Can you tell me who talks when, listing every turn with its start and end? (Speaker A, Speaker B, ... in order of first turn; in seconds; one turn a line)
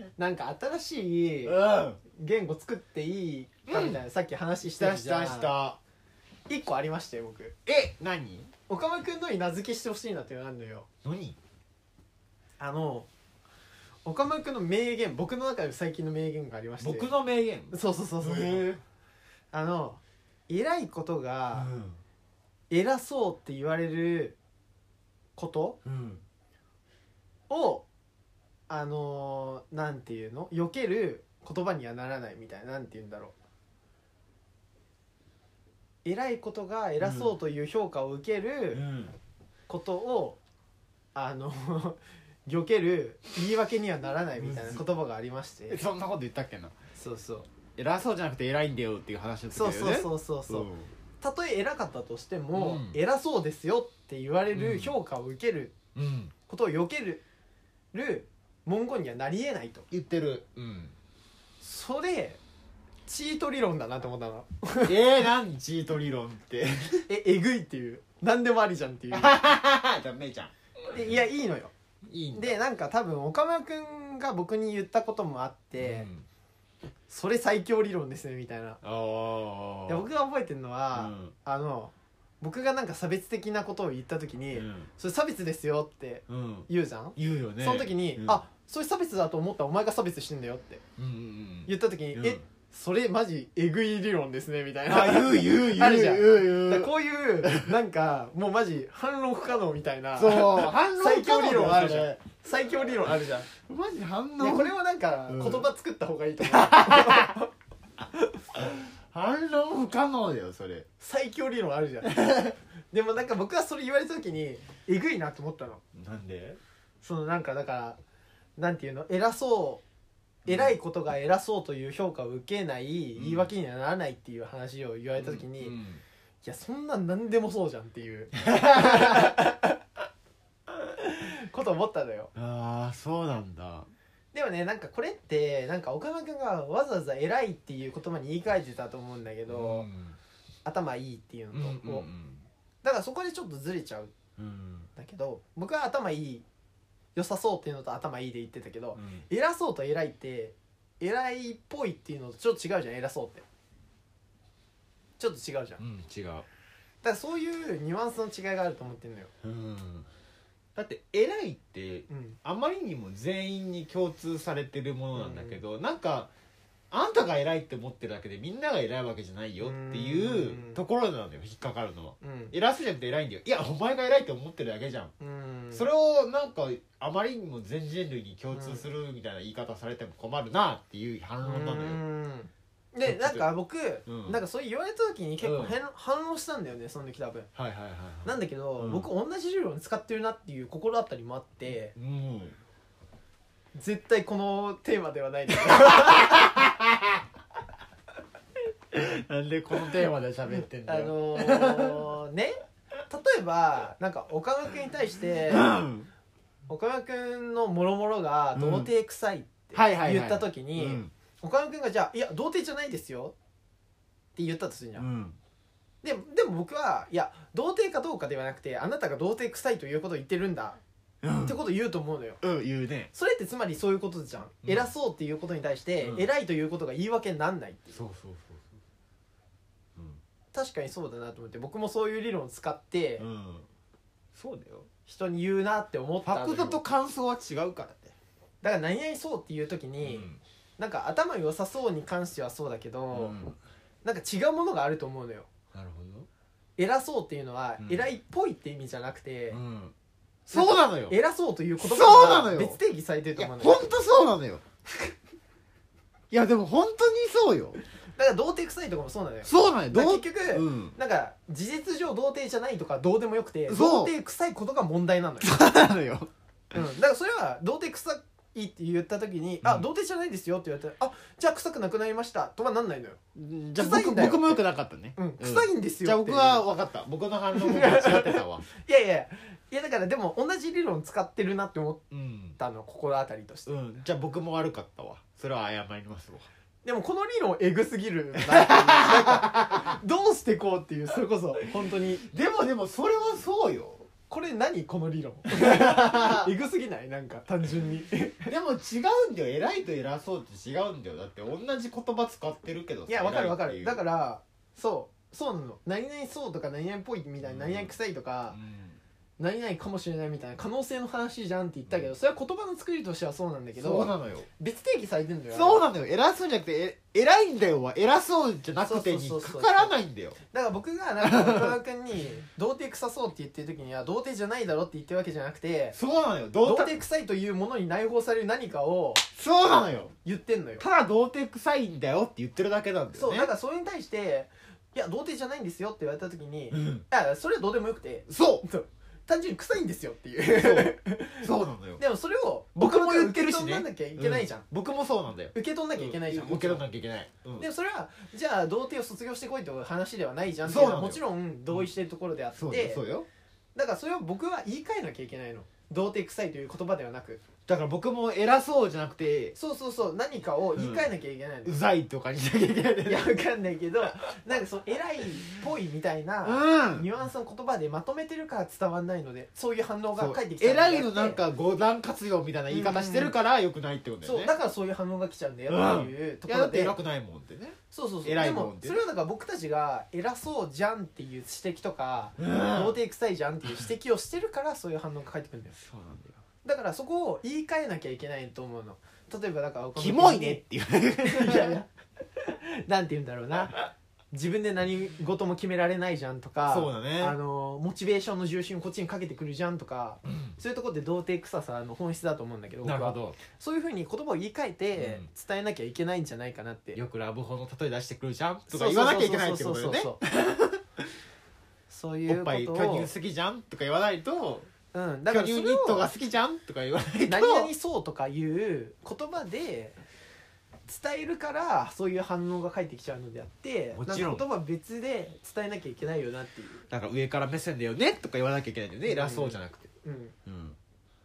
Speaker A: 0.2-5.5
Speaker B: 1.4-2.0
Speaker B: 3.7-4.0
Speaker B: 4.8-5.8
Speaker A: 6.5-7.5
Speaker B: 7.7-8.5
Speaker A: 8.7-10.9
Speaker B: 11.0-11.4
Speaker A: 12.6-13.1
Speaker A: 14.0-17.1
Speaker B: 16.8-18.8
Speaker A: 17.7-18.7
Speaker A: 19.5-21.7
Speaker B: 21.5-22.0
Speaker A: 22.7-24.4
Speaker A: 25.4-25.8
Speaker B: 25.8-26.2
Speaker A: 27.5-27.8
Speaker A: 28.7-33.3
Speaker A: 36.0-38.8
Speaker B: 37.0-37.3
Speaker B: 38.7-39.1
Speaker A: 39.7-40.4
Speaker A: 41.1-45.8
Speaker B: 44.4-44.8
Speaker B: 45.7-46.7
Speaker A: 47.0-47.5
Speaker B: 47.7-50.9
Speaker A: 49.5-50.7
Speaker A: 51.2-55.7
Speaker B: 52.5-53.0
Speaker B: 54.5-54.9
Speaker B: 55.9-56.3
Speaker A: 56.5-57.2
Speaker A: 57.9-59.9
Speaker B: 59.9-60.9
Speaker A: 61.6-62.4
Speaker A: 63.1-65.0
Speaker B: 64.8-67.1
Speaker A: 67.1-69.4
Speaker B: 69.1-70.5
Speaker A: 70.9-71.7
Speaker B: 72.1-72.6
Speaker A: 72.3-76.1
Speaker B: 75.8-76.2
Speaker A: 77.1-78.8
Speaker B: 78.8-80.1
Speaker A: 79.9-90.8
Speaker B: 80.9-81.3
Speaker B: 84.5-84.9
Speaker B: 86.3-88.4
Speaker B: 91.0-92.4
Speaker A: 91.7-103.5
Speaker B: 94.9-97.7
Speaker B: 100.2-102.2
Speaker B: 103.7-104.7
Speaker A: 104.4-107.5
Speaker B: 105.3-105.7
Speaker B: 106.4-107.3
Speaker B: 108.5-110.8
Speaker A: 111.0-112.2
Speaker B: 112.0-112.5
Speaker A: 112.9-115.8
Speaker B: 115.9-116.6
Speaker A: 117.0-118.0
Speaker A: 118.6-119.8
Speaker B: 120.5-120.7
Speaker A: 120.5-125.8
Speaker B: 123.2-123.5
Speaker B: 125.2-126.0
Speaker A: 126.4-129.8
Speaker B: 128.3-129.3
Speaker A: 131.0-132.3
Speaker B: 132.3-133.9
Speaker A: 134.3-139.9
Speaker B: 139.5-140.2
Speaker A: 140.6-142.1
Speaker B: 141.5-142.5
Speaker A: 142.8-144.1
Speaker B: 144.4-144.9
Speaker A: 144.9-146.4
Speaker A: 147.1-153.4
Speaker B: 148.9-149.2
Speaker A: 155.2-155.8
Speaker B: 155.8-156.4
Speaker A: 157.0-159.3
Speaker B: 159.4-160.1
Speaker B: 160.8-166.3
Speaker A: 162.1-162.4
Speaker A: 165.1-165.6
Speaker B: 166.9-175.1
Speaker A: 169.6-170.8
Speaker A: 172.2-172.5
Speaker A: 175.2-175.8
Speaker B: 175.7-182.0
Speaker A: 178.5-178.8
Speaker A: 181.4-187.5
Speaker B: 183.0-183.5
Speaker B: 184.1-184.4
Speaker B: 185.4-185.7
Speaker B: 187.5-189.1
Speaker A: 188.2-191.9
Speaker B: 191.9-192.6
Speaker A: 193.8-196.5
Speaker B: 195.7-197.0
Speaker B: 198.9-202.1
Speaker A: 200.8-205.8
Speaker B: 205.5-206.1
Speaker A: 206.7-213.3
Speaker B: 208.6-208.9
Speaker B: 209.7-211.1
Speaker A: 214.3-215.1
Speaker B: 214.9-215.4
Speaker A: 216.0-220.8
Speaker B: 221.2-221.6
Speaker A: 221.4-222.4
Speaker B: 222.4-223.1
Speaker A: 223.1-228.0
Speaker B: 224.6-224.9
Speaker B: 226.0-226.3
Speaker B: 227.9-228.8
Speaker A: 230.5-233.2
Speaker B: 233.2-233.7
Speaker B: 234.3-234.9
Speaker A: 235.1-236.8
Speaker B: 236.2-238.1
Speaker A: 238.6-240.3
Speaker B: 240.0-240.4
Speaker A: 240.8-243.4
Speaker B: 243.1-243.6
Speaker A: 244.0-245.5
Speaker B: 245.7-246.3
Speaker A: 246.8-249.6
Speaker B: 247.8-248.1
Speaker B: 249.5-249.9
Speaker B: 250.5-251.2
Speaker A: 250.5-253.9
Speaker B: 251.8-252.8
Speaker B: 253.4-254.6
Speaker B: 256.3-257.8
Speaker A: 258.2-265.5
Speaker B: 259.4-260.9
Speaker B: 263.7-264.1
Speaker B: 265.4-266.3
Speaker A: 266.7-273.2
Speaker B: 273.3-278.7
Speaker A: 273.8-274.6
Speaker A: 275.1-276.6
Speaker A: 277.5-282.0
Speaker B: 282.1-282.6
Speaker A: 282.6-283.7
Speaker B: 283.6-286.5
Speaker A: 286.8-292.2
Speaker B: 288.4-289.9
Speaker B: 292.3-294.1
Speaker A: 294.3-298.5
Speaker B: 295.5-296.5
Speaker B: 298.4-304.0
Speaker A: 303.1-308.6
Speaker B: 307.4-307.9
Speaker B: 308.5-309.0
Speaker A: 309.4-315.9
Speaker B: 313.8-314.5
Speaker B: 315.5-320.4
Speaker A: 318.8-319.9
Speaker A: 320.5-325.9
Speaker B: 321.2-321.7
Speaker B: 325.9-326.9
Speaker A: 326.6-329.2
Speaker B: 329.3-330.1
Speaker A: 330.2-330.8
Speaker B: 330.8-333.5
Speaker A: 333.1-344.6
Speaker B: 336.7-337.0
Speaker B: 338.3-338.6
Speaker B: 340.5-342.0
Speaker B: 342.7-347.6
Speaker A: 345.5-346.8
Speaker A: 347.6-353.0
Speaker B: 350.6-351.2
Speaker B: 352.6-353.3
Speaker A: 353.7-357.4
Speaker B: 357.6-359.5
Speaker A: 359.5-361.8
Speaker B: 360.8-361.0
Speaker B: 361.6-363.3
Speaker A: 363.1-371.4
Speaker B: 366.4-367.1
Speaker B: 370.1-374.5
Speaker A: 372.7-373.3
Speaker A: 374.2-377.0
Speaker B: 375.7-379.0
Speaker A: 377.9-385.8
Speaker B: 382.4-383.0
Speaker B: 385.8-386.4
Speaker A: 386.6-390.6
Speaker B: 389.9-391.8
Speaker A: 391.2-391.9
Speaker A: 392.4-393.8
Speaker A: 394.3-407.0
Speaker B: 396.6-397.4
Speaker B: 400.3-400.5
Speaker B: 402.8-403.4
Speaker B: 404.9-405.3
Speaker B: 406.9-410.8
Speaker A: 408.7-410.2
Speaker A: 411.9-413.1
Speaker B: 412.3-414.7
Speaker A: 414.9-416.1
Speaker B: 415.3-417.7
Speaker A: 417.3-420.0
Speaker A: 420.9-426.9
Speaker B: 423.9-424.4
Speaker B: 426.9-429.9
Speaker A: 429.1-430.3
Speaker B: 430.4-430.8